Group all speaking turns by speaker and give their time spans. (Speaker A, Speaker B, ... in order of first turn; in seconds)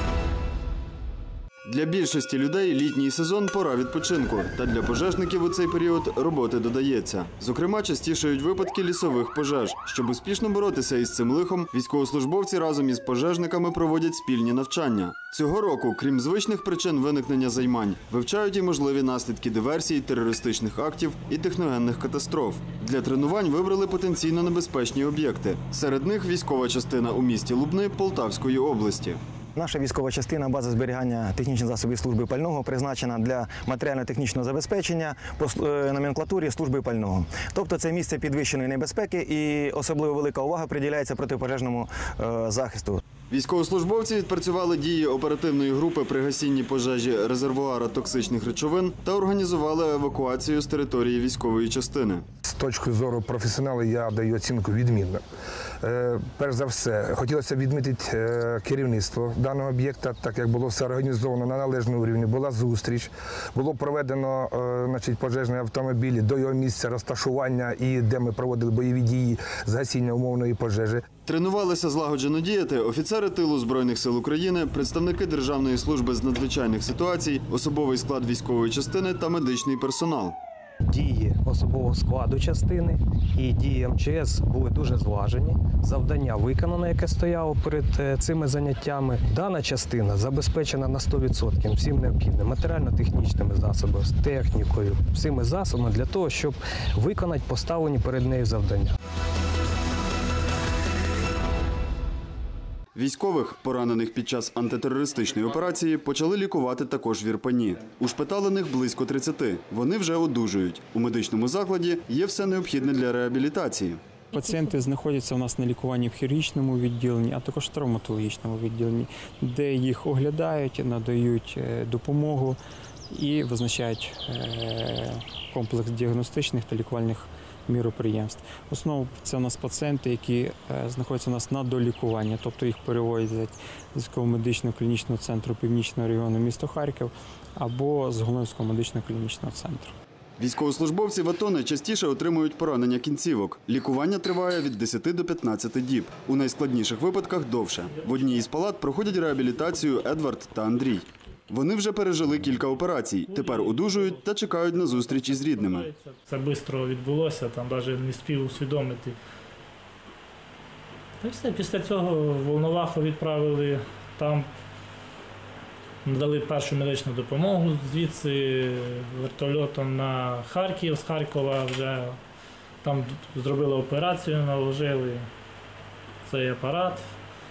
Speaker A: 1.7-29.2, 43.3-52.2, 71.2-80.4, 103.0-114.0, 140.4-155.9
Speaker B: 29.5-43.0
Speaker C: 52.5-55.2, 55.8-71.0
Speaker D: 80.8-99.0
Speaker E: 114.3-122.6, 123.1-139.9
Speaker F: 147.9-148.4, 153.2-159.2, 161.2-164.5, 166.0-172.2, 172.8-175.3, 176.2-177.1